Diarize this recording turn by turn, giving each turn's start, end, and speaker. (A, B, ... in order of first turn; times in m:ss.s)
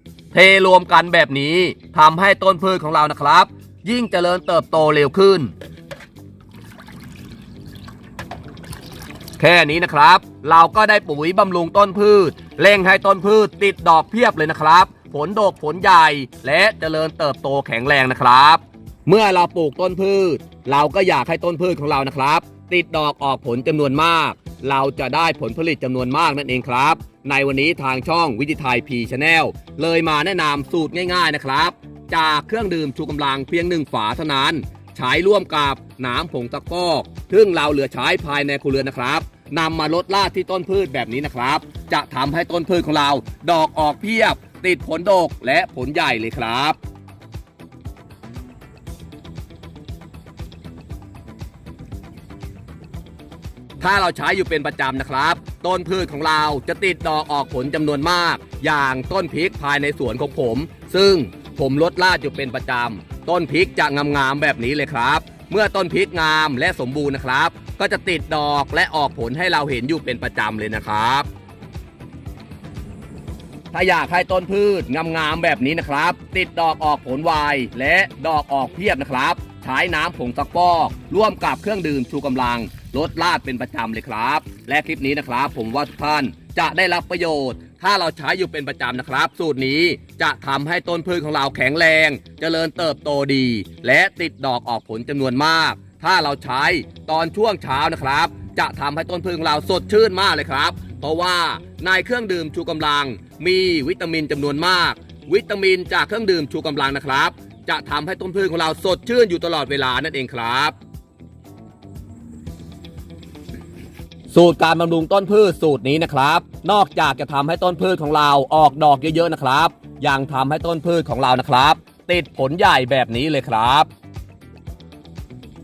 0:00.3-0:05.5 A
0:09.4-0:46.8 A
0:53.8-1:11.3 A
1:13.7-1:50.8 A
1:54.3-2:03.9 A